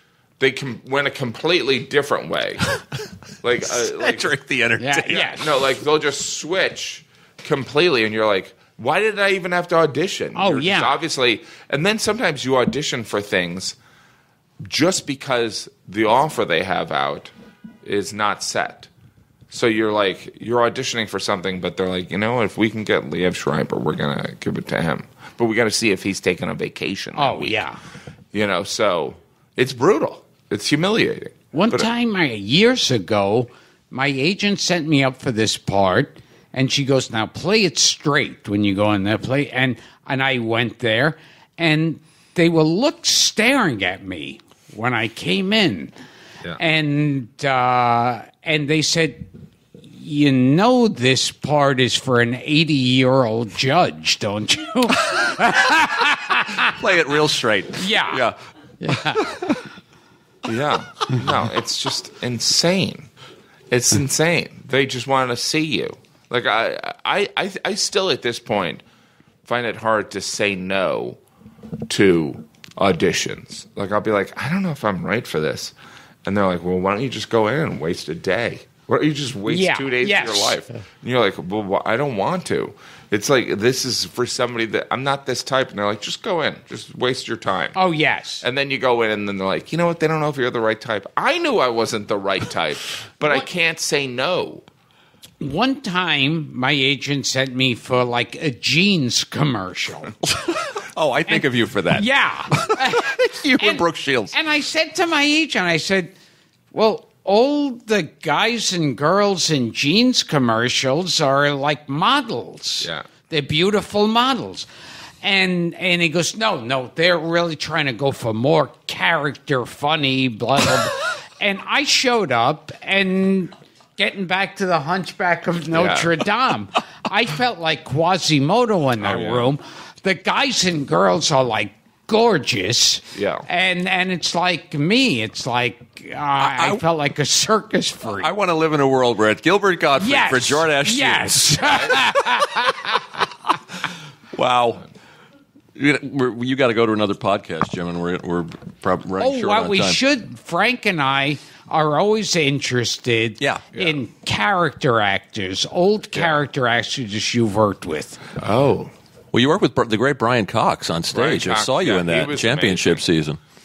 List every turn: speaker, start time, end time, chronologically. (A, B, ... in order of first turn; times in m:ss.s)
0:00.4-0:02.7 A
0:03.4-0:04.4 A
0:03.8-0:05.4 B
0:04.8-0:05.4 C
0:05.1-0:13.8 A
0:10.4-0:10.9 C
0:14.6-0:17.3 A
0:17.8-0:18.9 A
0:19.5-0:27.6 A
0:27.1-0:27.8 C
0:28.3-0:31.9 A
0:31.5-0:45.9 C
0:46.6-0:49.3 C
0:49.9-0:56.8 C
0:56.5-0:58.3 B
0:57.8-0:58.2 C
0:58.8-0:59.4 C
0:58.9-0:59.6 B
1:00.4-1:03.1 A
1:03.7-1:08.8 A
1:09.4-1:11.2 A
1:11.9-1:27.8 A
1:19.5-1:20.6 C
1:27.7-1:28.4 C
1:28.4-1:34.6 A
1:35.4-1:40.2 C
1:40.2-1:44.3 B
1:41.3-1:46.1 C
1:46.7-1:54.7 C
1:55.2-2:18.3 C
2:05.7-2:06.1 A
2:09.0-2:09.5 A
2:13.1-2:13.4 A
2:16.4-2:16.8 B
2:18.2-2:22.6 B
2:20.0-2:23.3 C
2:24.3-2:24.8 B
2:25.7-2:30.0 B
2:29.2-2:38.2 C
2:33.4-2:33.7 B
2:33.7-2:34.0 A
2:36.1-2:36.4 A
2:38.4-2:38.9 A
2:39.3-2:43.4 B
2:41.1-2:43.0 A